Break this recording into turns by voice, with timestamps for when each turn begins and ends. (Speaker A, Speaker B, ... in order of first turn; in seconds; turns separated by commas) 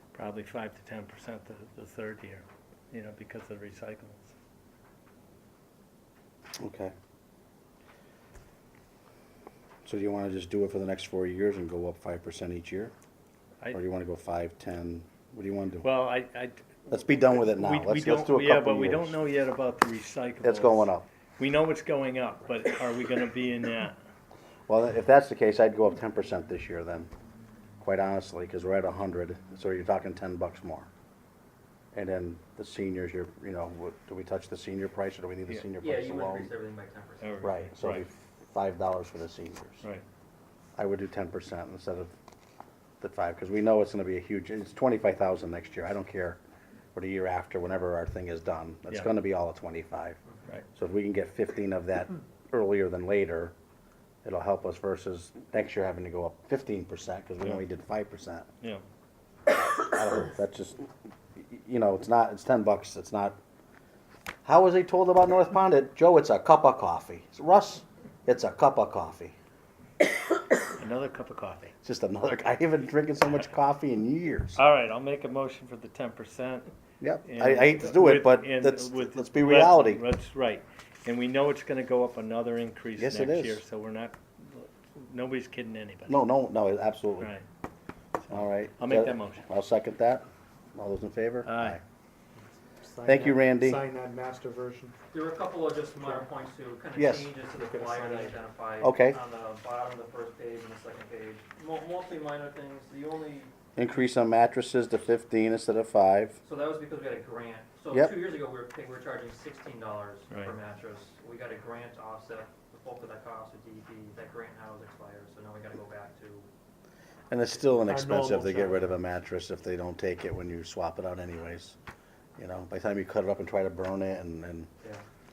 Speaker A: 0.1-4.3, Speaker B: 6.6-6.9, Speaker B: 9.8-12.9, Speaker B: 13.7-15.9, Speaker A: 15.8-20.9, Speaker B: 16.9-19.2, Speaker B: 20.4-21.1, Speaker A: 21.4-24.0, Speaker B: 24.7-27.1, Speaker B: 27.8-30.9, Speaker B: 31.9-36.5, Speaker C: 35.8-37.5, Speaker A: 37.2-38.0, Speaker B: 37.4-39.8, Speaker B: 40.8-42.1, Speaker B: 43.0-46.4, Speaker B: 47.0-50.2, Speaker B: 50.8-53.5, Speaker B: 54.2-58.5, Speaker B: 59.5-63.4, Speaker B: 64.5-69.3, Speaker A: 70.8-71.7, Speaker B: 71.8-74.6, Speaker A: 74.6-76.7, Speaker B: 77.0-80.0, Speaker A: 77.3-86.1, Speaker B: 83.0-83.6, Speaker B: 86.1-87.3, Speaker A: 87.2-87.5, Speaker A: 88.2-89.5, Speaker B: 88.3-91.8, Speaker A: 91.5-91.8, Speaker D: 92.4-95.0, Speaker B: 93.0-93.8, Speaker C: 95.1-103.5, Speaker D: 96.0-96.3, Speaker B: 97.0-97.3, Speaker D: 97.5-98.4, Speaker B: 98.8-99.2, Speaker B: 103.8-106.4, Speaker C: 106.4-116.5, Speaker B: 117.3-121.8, Speaker D: 117.9-118.9, Speaker B: 122.4-124.7